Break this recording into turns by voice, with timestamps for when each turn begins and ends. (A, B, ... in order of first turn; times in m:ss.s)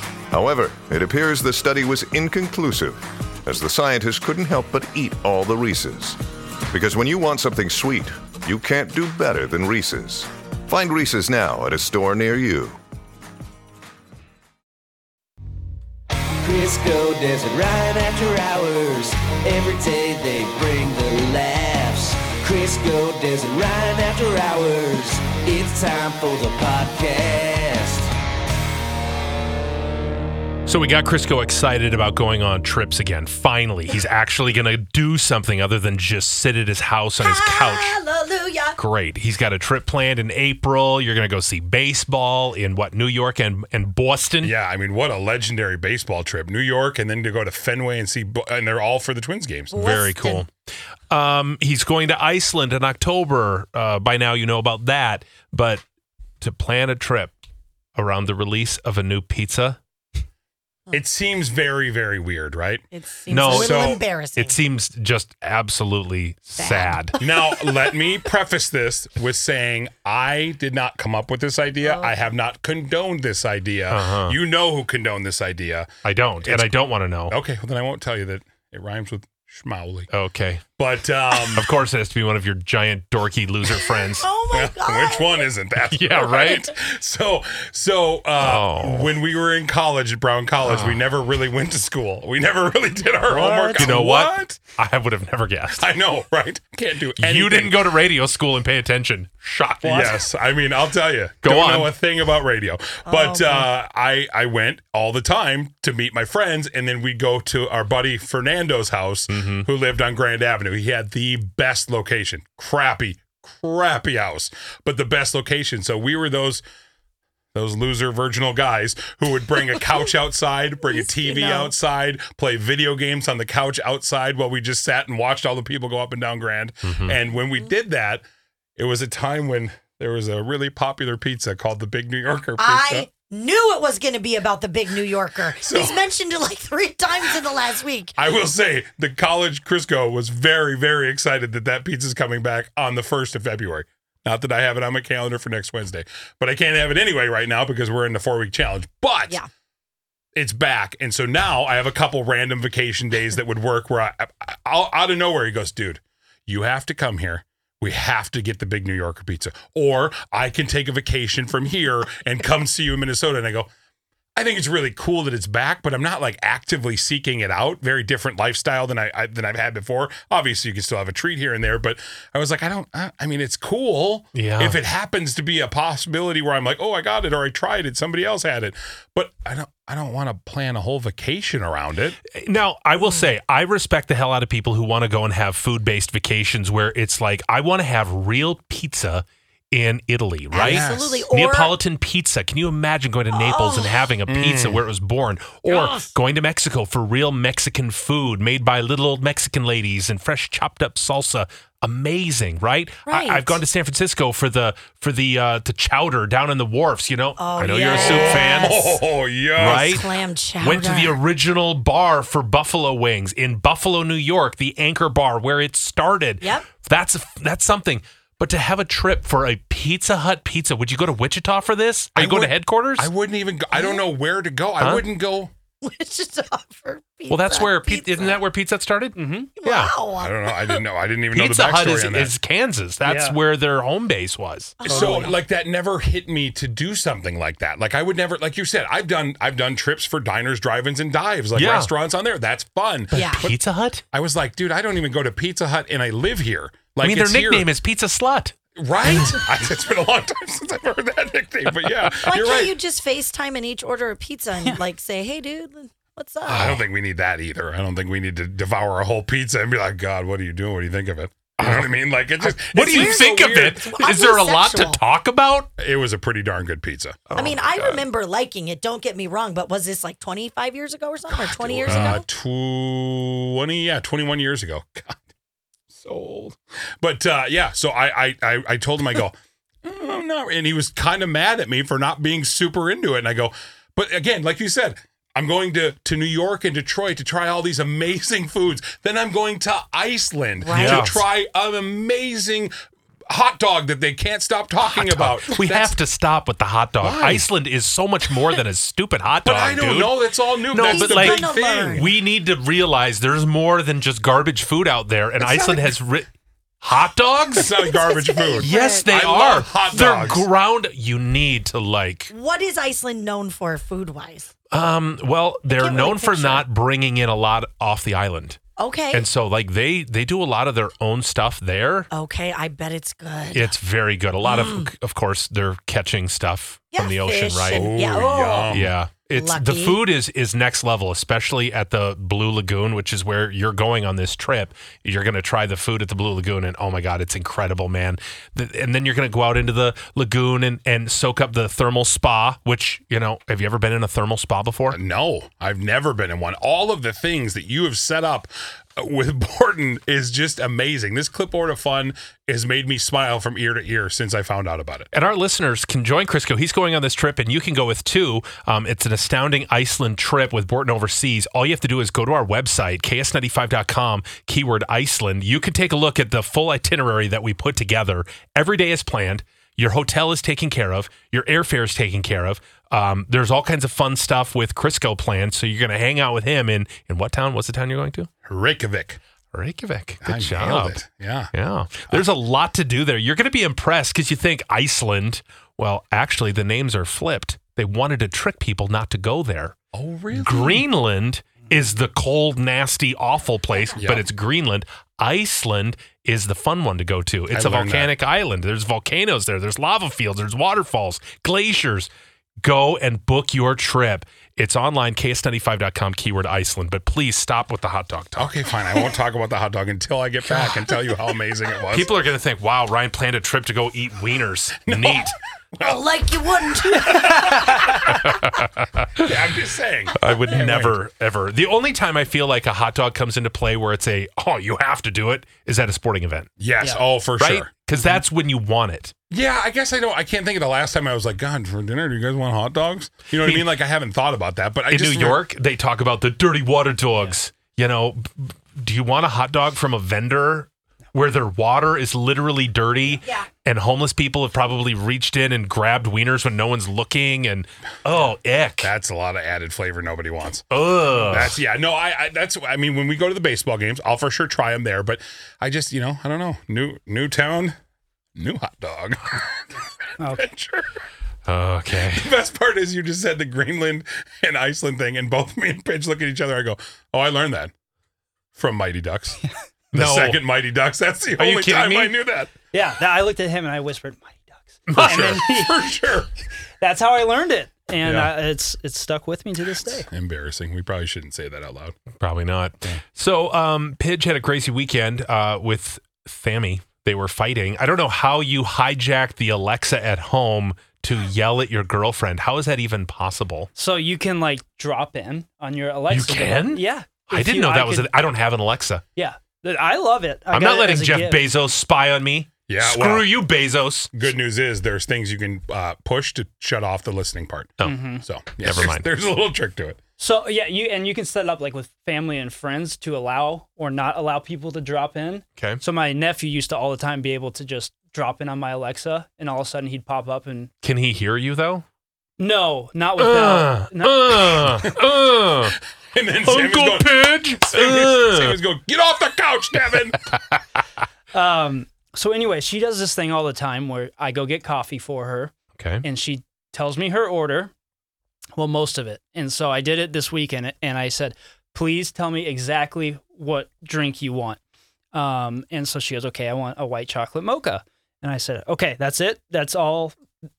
0:00.3-0:06.2 A
0:06.7-0:12.8 A
0:16.4-0:28.1 B
0:30.6-0:38.0 C
0:37.2-0:38.8 D
0:38.8-0:44.5 C
0:44.4-0:49.8 E
0:49.7-0:50.4 D
0:49.7-0:50.5 C
0:51.1-0:55.8 C
0:56.4-0:57.3 C
0:58.0-0:59.8 C
1:00.9-1:02.8 E
1:02.9-1:04.6 D
1:03.3-1:07.2 C
1:03.5-1:04.0 E
1:06.6-1:07.9 D
1:07.2-1:15.9 E
1:11.8-1:12.1 D
1:13.9-1:14.4 C
1:16.0-1:17.3 C
1:16.4-1:16.7 E
1:17.3-1:20.1 E
1:20.1-1:20.6 C
1:20.8-1:21.7 E
1:21.5-1:24.3 C
1:23.7-1:25.5 D
1:24.5-1:34.6 E
1:25.9-1:26.5 C
1:28.4-1:29.1 C
1:30.6-1:31.0 C
1:33.3-1:34.0 D
1:33.7-1:35.9 C
1:35.8-1:37.8 E
1:37.2-1:40.2 C
1:39.8-1:56.6 E
1:41.4-1:41.9 C
1:43.1-1:43.7 D
1:49.3-1:49.7 C
1:57.5-2:08.2 E
2:00.9-2:01.7 D
2:06.8-2:07.2 C
2:08.8-2:13.1 E
2:12.6-2:18.1 D
2:15.6-2:16.0 E
2:18.2-2:29.4 E
2:30.3-2:43.7 E
2:44.4-3:02.2 E
2:54.3-2:54.8 C
3:02.3-3:28.7 C
3:10.5-3:11.8 D
3:10.6-3:11.2 E
3:13.3-3:14.0 D
3:14.3-3:14.8 E
3:15.7-3:16.1 D
3:23.1-3:23.6 D
3:27.4-3:29.0 D
3:27.8-3:30.0 E
3:29.6-3:43.1 C
3:29.6-3:31.2 D
3:36.4-3:36.7 D
3:42.2-3:45.5 E
3:43.7-3:44.0 D
3:44.8-3:45.0 C
3:45.8-3:48.4 D
3:47.3-3:49.9 C
3:49.2-3:49.5 F
3:49.6-3:50.8 D
3:50.2-3:52.3 E
3:51.3-3:54.8 C
3:53.0-3:53.4 F
3:54.8-3:55.4 D
3:54.8-4:03.5 E
4:01.5-4:01.9 C
4:03.1-4:03.5 D
4:03.1-4:04.0 C
4:04.1-4:07.7 E
4:07.0-4:08.5 C
4:08.8-4:12.7 E
4:11.9-4:12.1 C
4:12.2-4:16.7 D
4:16.4-4:16.8 C
4:16.4-4:23.8 E
4:21.6-4:25.7 C
4:22.8-4:25.0 D
4:25.8-4:27.3 E
4:27.3-4:28.0 C
4:27.3-4:32.2 D
4:31.3-4:35.2 E
4:31.9-4:32.2 C
4:35.9-4:52.7 E
4:50.6-4:51.1 D
4:50.7-4:51.2 C
4:53.3-4:55.9 E
4:54.8-5:06.3 C
4:57.0-4:57.4 E
4:59.4-5:02.1 E
5:00.8-5:02.1 D
5:05.4-5:05.9 D
5:06.8-5:07.7 C
5:07.6-5:10.4 E
5:07.7-5:10.3 D
5:08.6-5:12.3 C
5:12.3-5:14.5 D
5:14.7-5:18.6 C
5:15.7-5:16.6 D
5:18.8-5:19.2 D
5:19.1-5:22.1 C
5:22.1-5:23.7 D
5:23.5-5:27.9 C
5:24.4-5:24.9 D
5:26.9-5:28.7 D
5:27.7-5:28.9 E
5:28.7-5:45.0 C
5:29.3-5:30.0 D
5:44.9-5:55.1 E
5:55.1-6:18.3 C
6:18.4-6:19.2 E
6:19.5-6:21.0 C
6:20.2-6:21.5 E
6:21.5-6:29.7 C
6:29.9-6:30.8 E
6:30.3-6:42.1 C
6:34.0-6:34.3 E
6:37.5-6:38.1 E
6:42.6-6:48.5 C
6:48.4-6:52.1 E
6:51.9-6:55.3 C
6:54.9-6:56.0 E
6:55.8-6:58.2 D
6:56.8-6:58.3 E
6:57.2-6:59.3 C
6:59.2-7:01.0 E
7:00.2-7:06.5 C
7:06.6-7:07.7 E
7:07.4-7:09.1 C
7:09.3-7:15.4 E
7:14.9-7:28.9 C
7:23.2-7:23.5 D
7:28.8-7:30.7 E
7:30.7-7:31.6 C
7:31.2-7:31.4 F
7:31.2-7:37.8 E
7:38.4-7:39.6 E
7:40.2-7:40.5 F
7:40.3-7:40.9 E
7:41.5-7:42.3 C
7:42.1-7:47.7 E
7:48.5-7:49.4 E
7:49.9-7:52.5 E
7:49.9-7:50.4 C
7:51.4-7:52.1 C
7:52.7-7:55.8 F
7:54.9-7:55.4 C
7:54.9-7:56.3 E
7:56.8-8:00.1 F
8:00.0-8:02.0 E
8:02.2-8:13.7 C
8:13.8-8:18.1 F
8:16.1-8:19.0 C
8:19.2-8:21.4 F
8:20.5-8:24.1 C
8:22.7-8:23.3 E
8:24.1-8:30.0 E
8:27.8-8:28.2 F
8:28.6-8:29.1 C
8:30.2-8:40.7 F
8:35.6-8:35.8 C
8:40.8-8:41.8 C
8:42.4-8:44.4 F
8:43.2-8:45.8 C
8:46.1-8:50.3 E
8:46.4-8:48.6 C
8:51.3-8:57.7 F
8:55.8-8:56.0 C
8:58.6-9:04.6 F
9:05.1-9:10.2 F